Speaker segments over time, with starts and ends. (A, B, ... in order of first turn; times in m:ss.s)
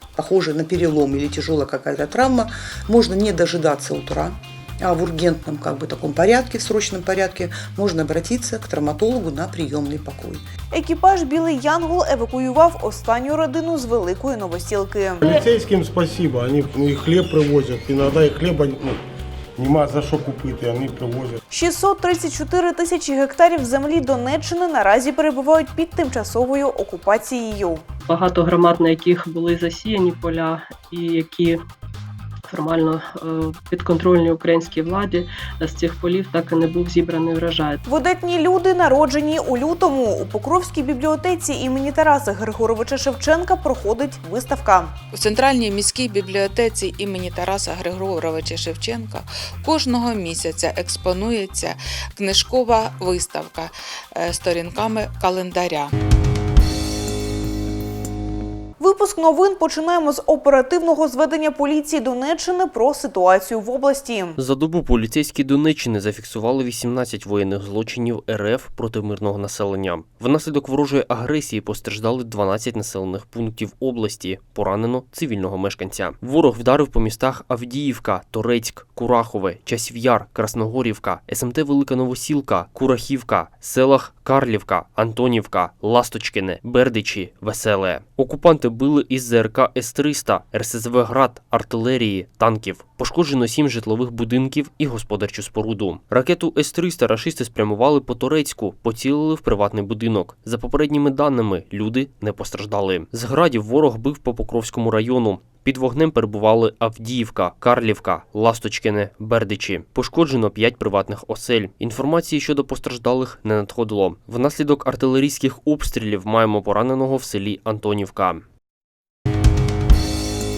0:00.2-0:10.4 A
0:10.7-0:15.2 B
0:15.2-0:19.0 C
0:19.6-0:21.4 C
0:21.5-0:27.8 B
0:28.1-0:31.6 D
0:32.5-0:37.8 D
0:37.9-0:45.0 B
0:45.1-0:55.9 E
0:58.8-1:04.4 B
1:04.4-1:58.4 F